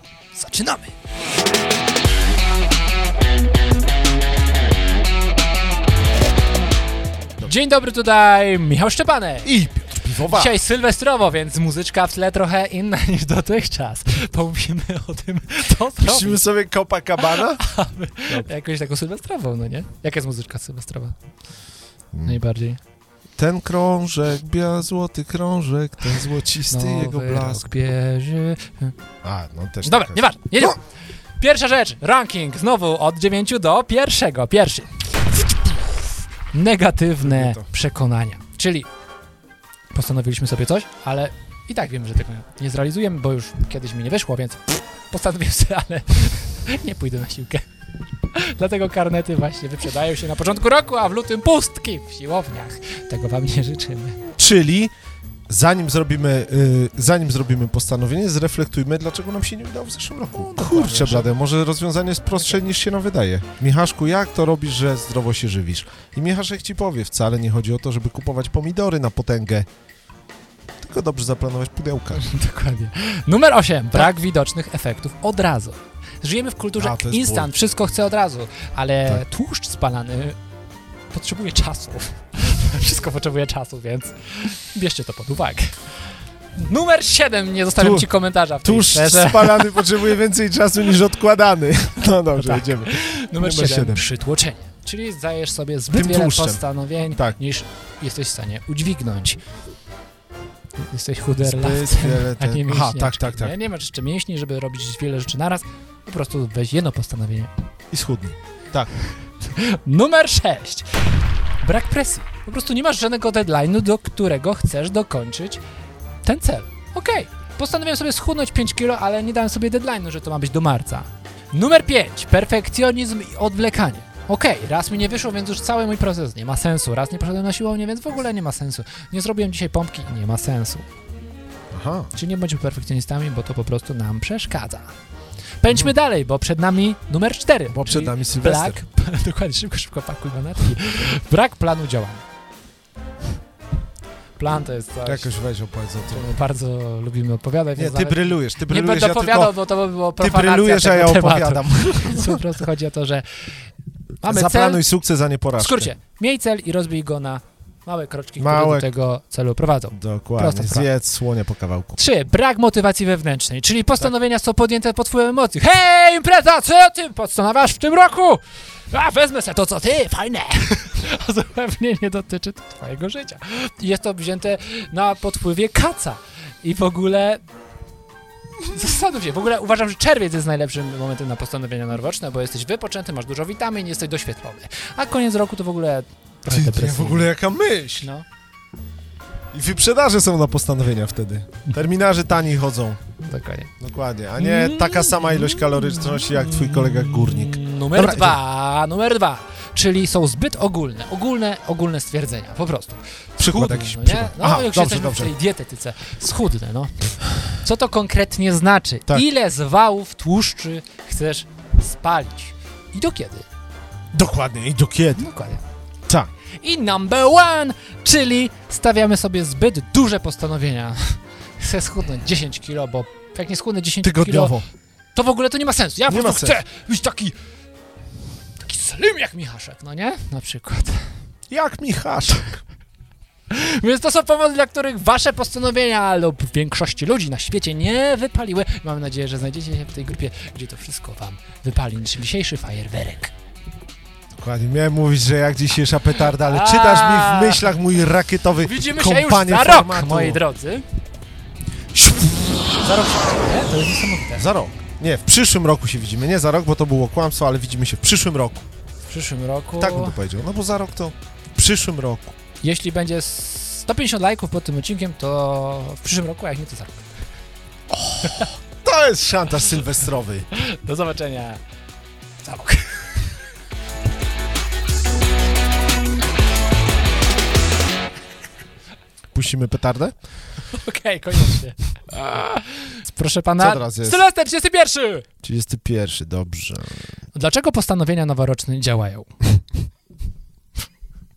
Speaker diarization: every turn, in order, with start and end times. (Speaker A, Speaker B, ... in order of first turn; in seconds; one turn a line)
Speaker A: 0.3-0.9
Speaker A: 7.4-9.5
Speaker B: 9.4-10.5
Speaker A: 10.2-16.4
Speaker B: 16.0-17.6
Speaker A: 17.2-21.1
Speaker B: 22.1-22.4
Speaker A: 22.2-22.8
Speaker B: 23.4-27.7
Speaker A: 26.7-28.9
Speaker B: 29.2-30.7
Speaker A: 29.8-30.8
Speaker A: 31.4-38.9
Speaker B: 37.2-37.7
Speaker A: 39.9-47.7
Speaker A: 48.3-54.2
Speaker B: 54.3-54.9
Speaker B: 55.5-69.7
Speaker A: 60.4-61.3
Speaker B: 70.8-72.2
Speaker A: 72.1-80.4
Speaker B: 76.8-77.5
Speaker A: 81.1-85.8
Speaker A: 86.5-89.9
Speaker B: 87.8-88.1
Speaker B: 88.6-94.0
Speaker A: 92.4-99.4
Speaker B: 95.9-97.4
Speaker A: 100.8-107.5
Speaker B: 101.4-103.5
Speaker B: 107.9-108.9
Speaker A: 109.4-111.1
Speaker A: 111.6-115.6
Speaker A: 116.2-130.8
Speaker B: 131.7-132.1
Speaker A: 132.1-134.9
Speaker A: 135.6-142.2
Speaker B: 137.7-138.8
Speaker A: 144.4-145.3
Speaker B: 145.0-146.2
Speaker A: 146.1-153.5
Speaker B: 147.8-149.6
Speaker B: 150.2-152.5
Speaker A: 154.2-154.8
Speaker B: 154.2-155.9
Speaker A: 155.6-160.9
Speaker B: 158.4-158.9
Speaker B: 159.9-162.0
Speaker A: 162.0-177.4
Speaker A: 178.6-187.3
Speaker B: 186.4-188.1
Speaker B: 189.5-193.0
Speaker A: 193.2-193.7
Speaker B: 193.8-198.4
Speaker A: 194.4-213.4
Speaker B: 203.4-205.3
Speaker B: 214.1-215.3
Speaker A: 215.2-215.6
Speaker A: 216.6-224.6
Speaker B: 224.0-224.7
Speaker A: 225.1-227.3
Speaker B: 226.1-226.6
Speaker A: 228.6-231.0
Speaker B: 231.5-232.6
Speaker A: 233.5-243.3
Speaker B: 244.3-250.4
Speaker A: 246.2-247.7
Speaker A: 248.6-250.8
Speaker A: 252.1-254.4
Speaker B: 254.4-258.6
Speaker A: 259.1-260.2
Speaker B: 259.8-262.4
Speaker A: 262.6-267.1
Speaker B: 268.2-270.5
Speaker A: 270.5-271.6
Speaker A: 272.4-273.1
Speaker B: 279.3-280.1
Speaker A: 280.6-285.2
Speaker B: 283.6-284.2
Speaker B: 285.4-287.0
Speaker A: 287.3-289.3